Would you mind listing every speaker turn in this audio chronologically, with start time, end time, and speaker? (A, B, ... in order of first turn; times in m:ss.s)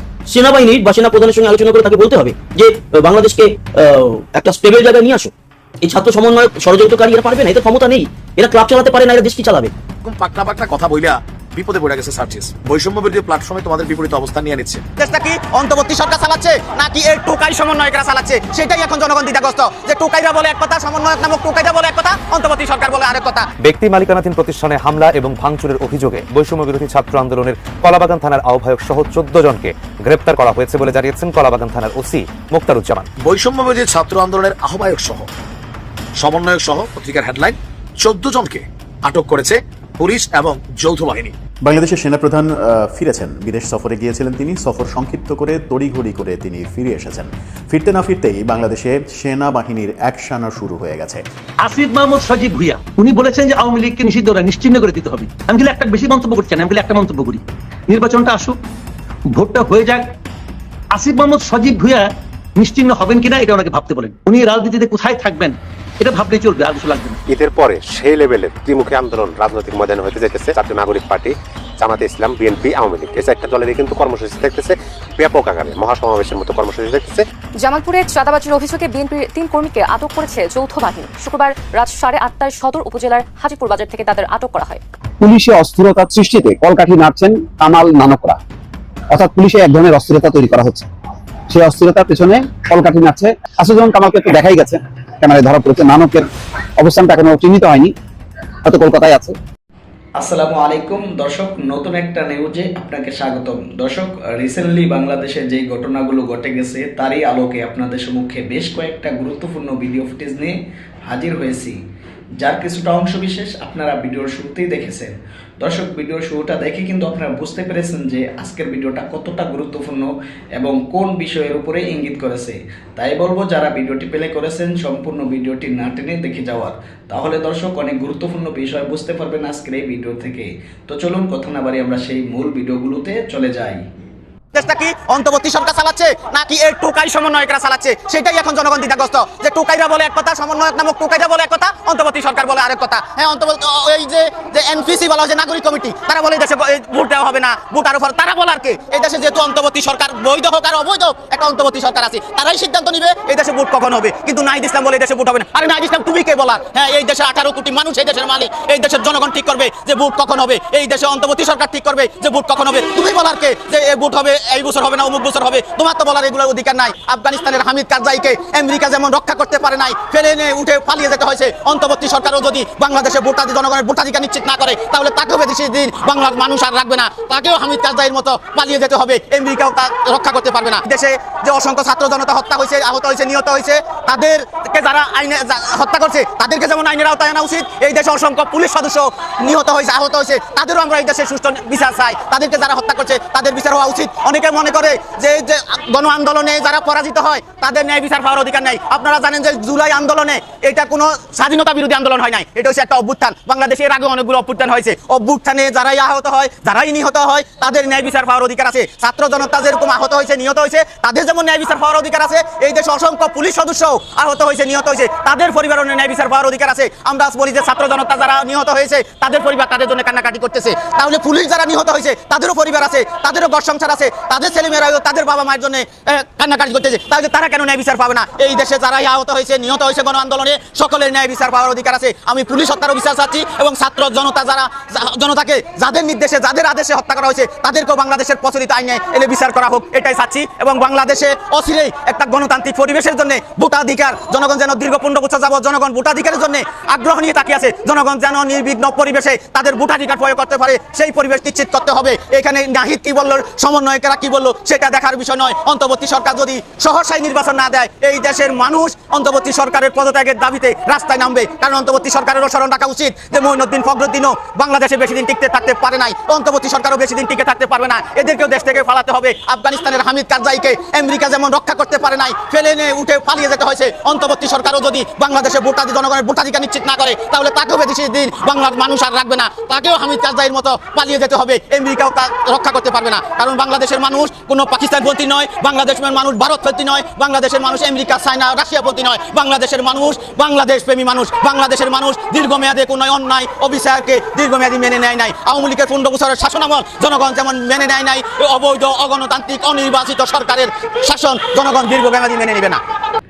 0:00.3-0:05.3 A
0:05.8-0:09.7 A
0:10.0-0:14.8 B
0:15.0-0:23.5 C
0:23.6-0:33.0 D
0:33.2-0:35.3 B
0:36.2-0:41.3 B
0:41.6-0:51.2 E
0:51.6-0:58.6 F
0:59.3-1:00.0 F
1:00.9-1:07.2 F
1:07.3-1:17.2 G
1:17.6-1:24.8 H
1:25.2-1:28.4 I
1:29.1-1:30.9 I
1:31.5-1:36.3 I
1:36.8-1:37.9 I
1:38.6-1:39.4 I
1:40.2-1:51.8 J
1:52.4-2:13.8 J
2:14.5-5:02.8 C